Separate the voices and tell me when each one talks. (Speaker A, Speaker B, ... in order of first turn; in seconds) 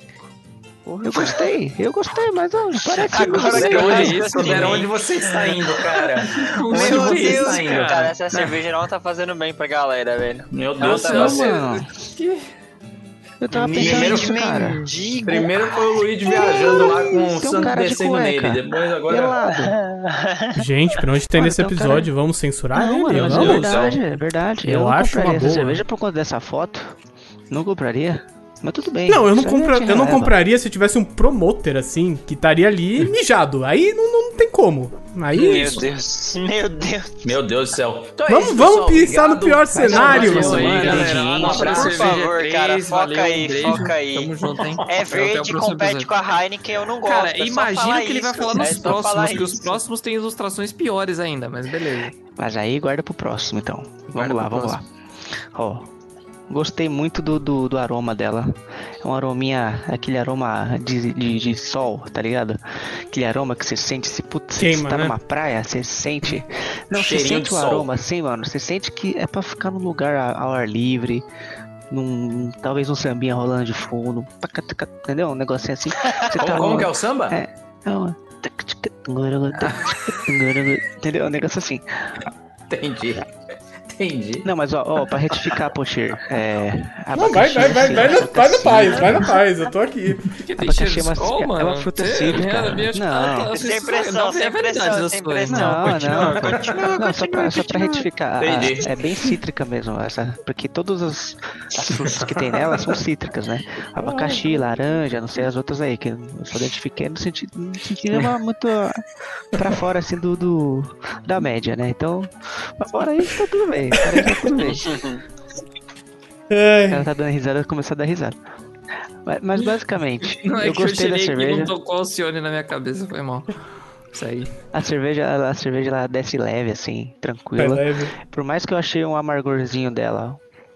Speaker A: 0.9-4.1, 10.9-11.9, 13.4-14.9, 16.3-19.8, 21.4-22.1, 22.7-27.0, 27.5-30.4, 39.7-42.0, 52.4-54.8, 55.5-55.9, 56.5-71.2, 71.9-82.2, 84.4-89.3, 90.6-93.5, 95.5-115.0, 116.9-118.4, 119.2-121.7, 124.7-130.4
Speaker B: 2.9-5.7, 6.7-10.5, 13.6-15.8, 19.6-20.6, 35.3-37.2, 40.9-44.3, 44.9-49.8, 93.5-97.7, 114.8-115.2
Speaker C: 3.3-8.1, 10.5-11.5, 13.7-14.4, 15.2-19.4, 23.1-24.0, 37.2-42.2, 48.7-49.0, 66.9-67.9, 76.4-77.4, 79.6-79.9, 82.7-83.3, 83.9-84.5, 96.4-96.9, 98.4-99.0
Speaker D: 3.4-4.9, 6.2-8.1, 10.8-12.5, 40.0-46.1, 47.0-52.1, 54.1-54.8, 90.3-96.7, 120.2-123.5, 124.1-124.5
Speaker E: 20.6-23.8, 24.6-25.8, 29.1-35.9, 38.3-40.8, 64.6-65.2, 87.1-90.3, 116.5-117.0, 127.6-128.1